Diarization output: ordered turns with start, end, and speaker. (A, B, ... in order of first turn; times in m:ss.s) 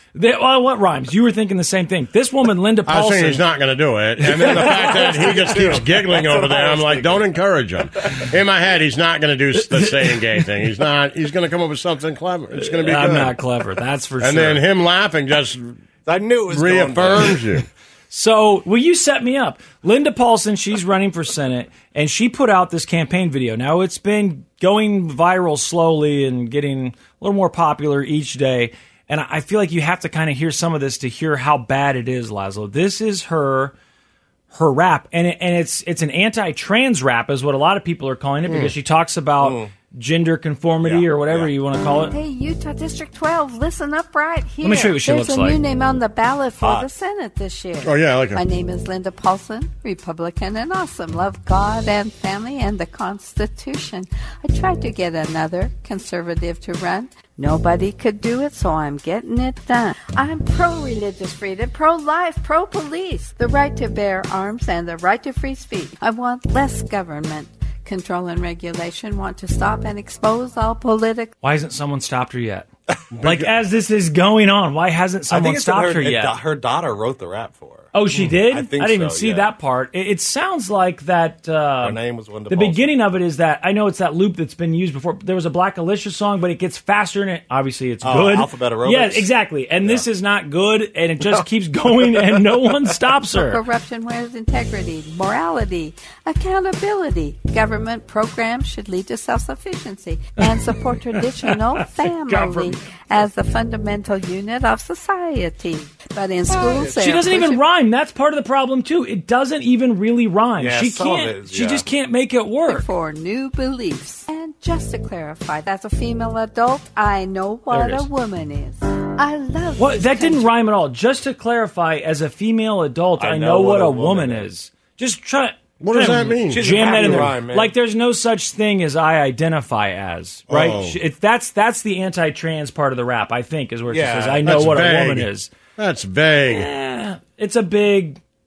0:00.1-0:03.4 A
0:02.9-0:13.4 B
0:04.3-0:05.7 A
0:04.3-0:07.2 C
0:09.5-0:10.4 A
0:12.6-0:14.6 A
0:14.2-0:15.8 B
0:16.1-0:17.4 C
0:16.5-0:17.7 B
0:18.1-0:33.7 A
0:34.5-0:42.1 A
0:38.5-0:38.7 B
0:39.4-0:39.7 C
0:40.8-0:41.5 C
0:42.1-1:11.3 D
0:44.6-0:45.6 A
0:46.6-0:46.9 C
0:47.8-0:48.4 B
1:11.4-1:12.7 A
1:13.2-1:16.4 A
1:15.3-1:19.5 C
1:17.9-1:33.6 A
1:21.8-1:22.9 C
1:28.0-1:29.3 C
1:33.3-1:47.6 D
1:42.2-1:42.8 A
1:46.6-1:47.2 C
1:46.6-1:52.9 A
1:50.6-1:51.8 C
1:52.6-2:00.5 D
1:57.7-1:58.1 A
1:59.8-2:15.5 A
2:03.2-2:04.5 C
2:05.8-2:07.3 B
2:06.5-2:07.7 C
2:10.5-2:11.0 B
2:13.9-2:14.5 C
2:14.4-2:16.7 B
2:16.5-2:18.2 A